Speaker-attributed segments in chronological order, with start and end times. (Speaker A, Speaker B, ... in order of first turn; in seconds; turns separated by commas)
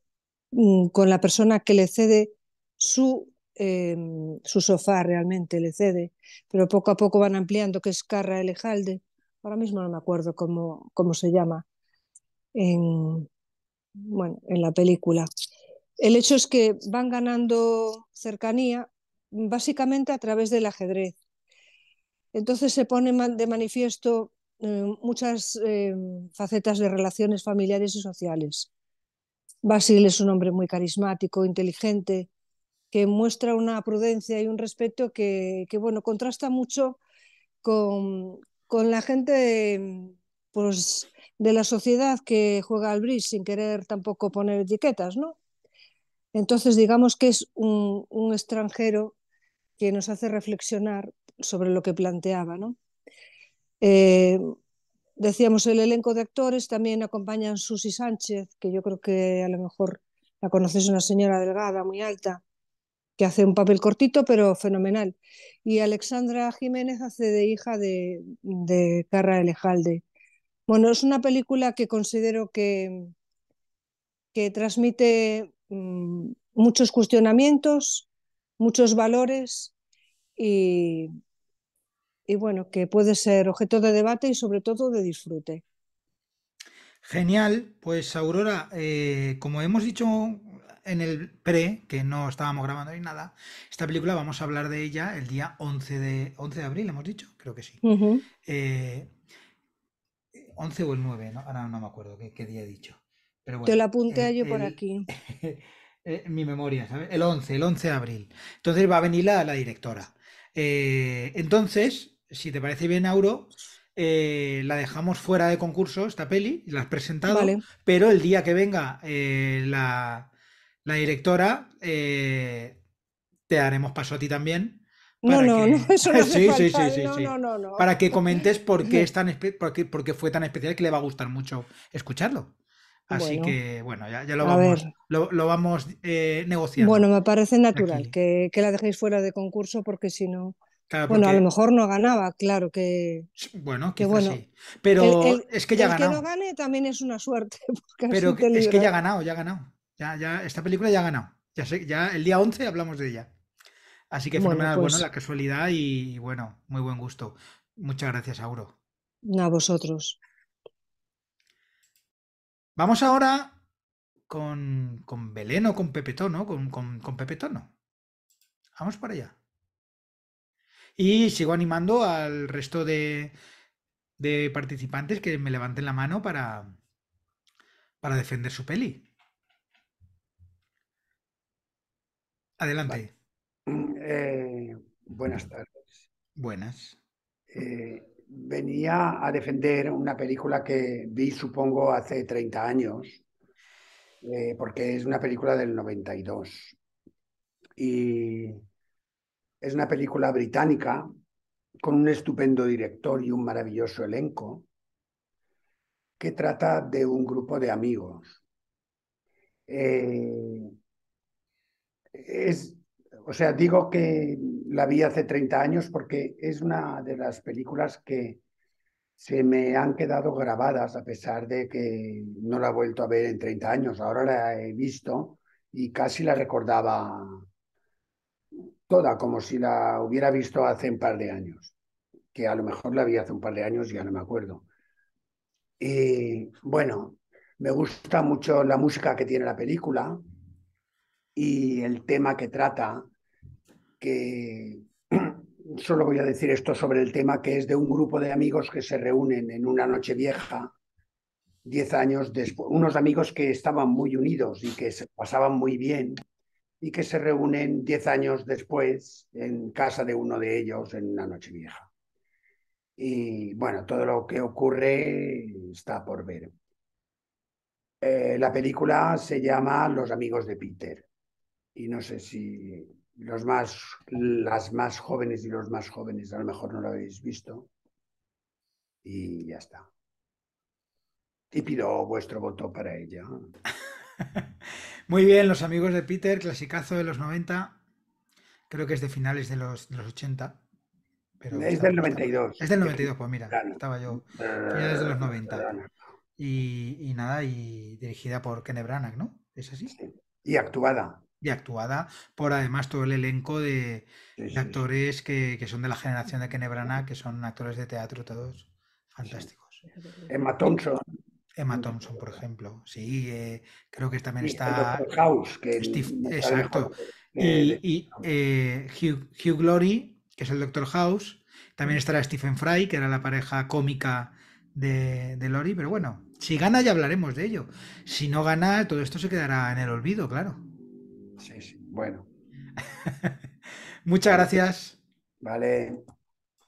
Speaker A: 0.5-11.7, Speaker A: 12.6-13.3, Speaker A: 14.0-15.3, Speaker A: 16.0-21.2, Speaker A: 22.3-28.7, Speaker A: 29.6-32.3, Speaker A: 32.9-37.0, Speaker A: 37.6-45.4, Speaker A: 46.3-49.1, Speaker A: 49.8-52.8, Speaker A: 53.8-54.5, Speaker A: 55.2-62.4, Speaker A: 63.2-70.0, Speaker A: 70.7-73.1, Speaker A: 74.3-78.1, Speaker A: 78.6-79.7, Speaker A: 80.4-81.1, Speaker A: 82.3-85.6, Speaker B: 87.0-97.8, Speaker A: 97.8-98.2, Speaker B: 98.4-99.1, Speaker B: 100.3-120.3, Speaker A: 103.7-105.1, Speaker A: 117.3-117.6, Speaker B: 120.8-122.8, Speaker B: 123.5-132.5, Speaker A: 125.2-129.1, Speaker B: 133.1-137.1, Speaker A: 133.1-133.6, Speaker A: 134.4-134.9, Speaker A: 136.8-140.6, Speaker B: 137.8-138.1, Speaker B: 140.9-141.4, Speaker A: 141.1-143.3, Speaker B: 143.4-146.2, Speaker A: 144.0-144.4, Speaker A: 145.0-148.9, Speaker B: 148.1-153.3, Speaker B: 154.1-158.8, Speaker A: 154.4-155.1, Speaker A: 159.3-160.2, Speaker B: 162.8-163.6, Speaker B: 164.3-167.7, Speaker B: 168.8-169.3, Speaker B: 171.0-173.4, Speaker B: 174.2-176.8, Speaker B: 178.0-179.1, Speaker B: 182.6-183.1, Speaker C: 183.7-185.8, Speaker B: 186.4-187.0, Speaker C: 187.5-193.2, Speaker C: 194.2-196.8, Speaker C: 197.8-198.6, Speaker C: 199.6-201.1, Speaker C: 201.8-204.7, Speaker C: 206.2-208.4, Speaker C: 209.7-210.8, Speaker C: 212.1-218.4, Speaker C: 219.2-227.4, Speaker C: 228.9-231.7, Speaker C: 232.3-234.7, Speaker C: 235.8-240.2, Speaker C: 241.4-243.1, Speaker C: 244.0-250.7, Speaker C: 251.7-256.2, Speaker C: 256.8-261.9, Speaker C: 263.0-266.5, Speaker C: 268.0-271.1, Speaker C: 271.8-277.7, Speaker C: 279.1-279.9, Speaker C: 281.5-283.3, Speaker B: 285.1-287.8, Speaker B: 288.7-290.6, Speaker B: 291.4-295.7, Speaker C: 291.5-295.9, Speaker B: 296.4-299.9, Speaker C: 299.9-301.2, Speaker B: 301.4-309.8, Speaker C: 304.4-304.8, Speaker C: 310.3-311.0, Speaker B: 311.6-315.0, Speaker C: 314.4-317.8, Speaker B: 315.8-330.6, Speaker C: 331.4-332.3, Speaker B: 334.1-335.0, Speaker C: 335.4-336.0